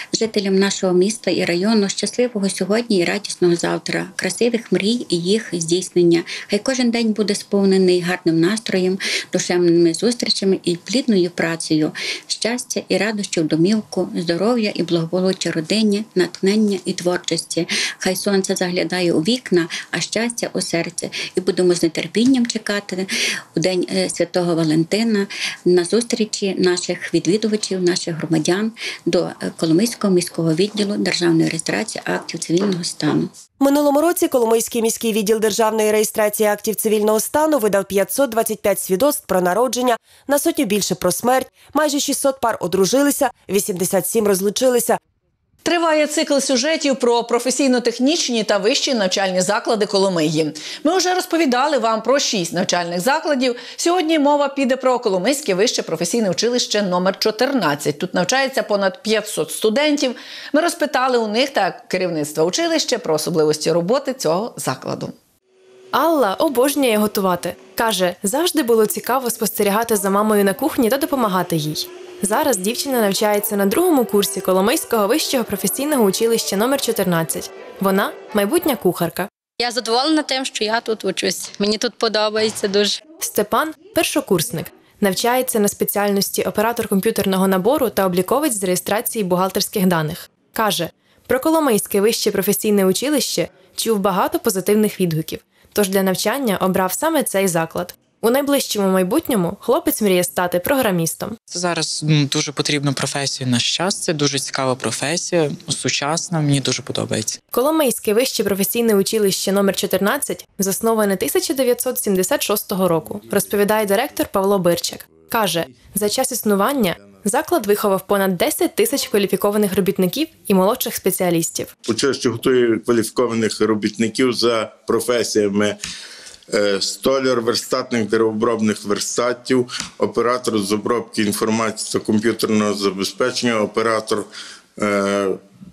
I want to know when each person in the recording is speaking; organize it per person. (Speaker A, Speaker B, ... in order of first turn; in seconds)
Speaker A: 0.1-33.4
Speaker B: 33.6-45.0
Speaker C: 45.6-65.2
Speaker D: 65.9-79.3, 83.2-101.4, 107.5-121.7
Speaker E: 79.6-83.0
Speaker F: 101.5-107.4
Speaker G: 121.9-125.8, 126.5-135.4